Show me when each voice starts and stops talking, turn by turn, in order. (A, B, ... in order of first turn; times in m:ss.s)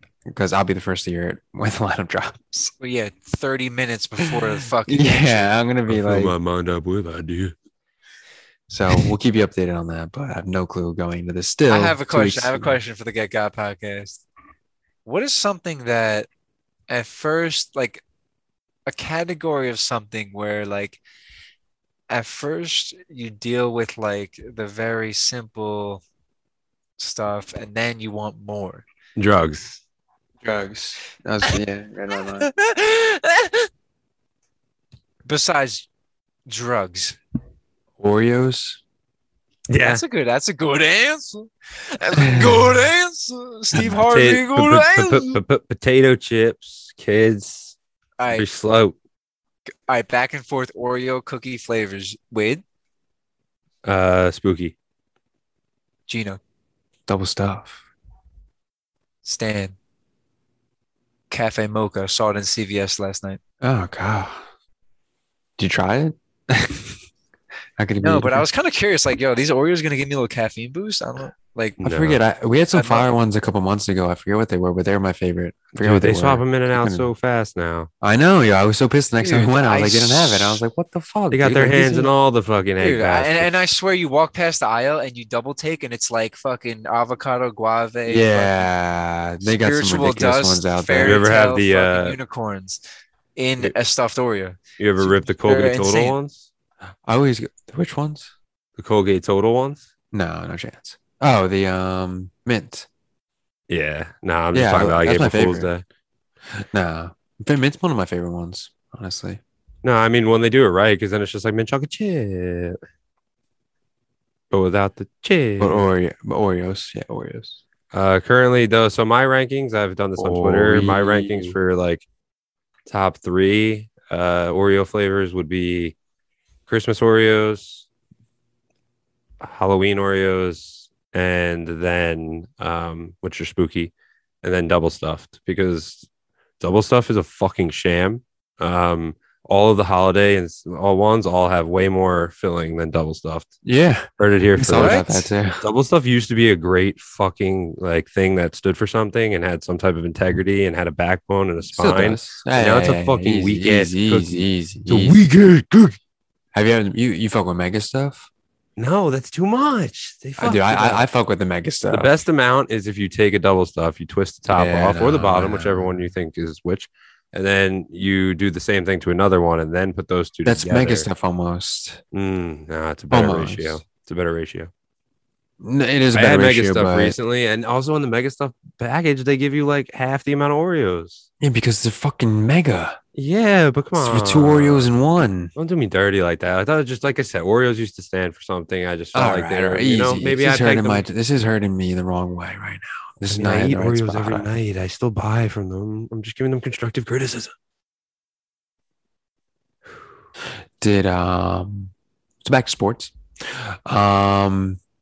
0:00.2-0:02.7 A
0:02.8-0:05.5 B
0:04.8-0:06.3 A
0:05.9-0:07.5 C
0:08.7-0:12.8 A
0:11.7-0:14.2 B
0:15.0-0:16.3 B
0:16.9-0:18.0 B
0:18.9-0:21.0 B
0:22.1-0:26.0 B
0:27.0-0:28.8 B
0:29.2-0:29.8 C
0:30.4-0:32.5 A
0:32.4-0:33.7 B
0:35.2-0:35.9 B
0:36.5-0:37.2 B
0:38.0-0:38.8 A
0:39.7-0:40.0 C
0:39.8-0:45.4 B
0:42.2-0:42.6 A
0:43.8-0:47.8 C
0:48.2-0:48.5 B
0:48.3-0:49.0 C
0:49.9-0:52.6 B
0:53.8-0:54.7 C
0:56.1-0:56.4 B
0:57.1-0:57.8 A
0:59.2-0:59.8 B
1:01.3-1:03.4 B
1:03.6-1:04.4 A
1:05.6-1:07.0 A
1:07.8-1:08.5 A
1:08.0-1:11.8 B
1:11.8-1:12.2 C
1:11.8-1:17.1 A
1:12.7-1:13.1 B
1:15.7-1:17.9 C
1:18.0-1:22.1 A
1:19.2-1:20.6 B
1:21.3-1:23.5 C
1:22.8-1:28.7 B
1:28.1-1:31.2 A
1:29.4-1:32.8 B
1:31.0-1:32.2 C
1:33.4-1:36.2 B
1:34.8-1:36.4 C
1:37.0-1:38.3 A
1:38.8-1:39.8 C
1:40.1-1:42.9 A
1:43.7-1:45.8 C
1:44.5-1:45.7 A
1:46.5-1:49.4 A
1:49.8-1:52.8 C
1:54.5-1:55.8 C
1:55.6-1:57.6 A
1:57.9-2:02.0 C
2:00.2-2:01.6 A
2:02.9-2:05.9 C
2:06.7-2:07.8 C
2:09.4-2:13.9 C
2:14.4-2:16.0 C
2:16.6-2:23.5 C
2:23.6-2:25.6 A
2:24.2-2:25.0 C
2:24.7-2:25.3 B
2:25.6-2:36.0 C
2:31.7-2:35.2 A
2:36.5-2:38.3 A
2:38.8-2:41.1 C
2:40.4-2:42.1 A
2:41.9-2:51.1 C
2:44.5-2:46.1 A
2:50.4-2:52.0 A
2:52.1-2:54.7 C
2:53.1-2:53.8 A
2:55.6-2:57.2 A
2:56.1-3:01.2 C
3:01.4-3:03.0 A
3:03.1-3:04.9 C
3:04.0-3:05.5 A
3:05.6-3:11.0 C
3:09.1-3:14.5 A
3:13.3-3:17.5 C
3:20.8-3:21.9 A
3:22.4-3:24.8 A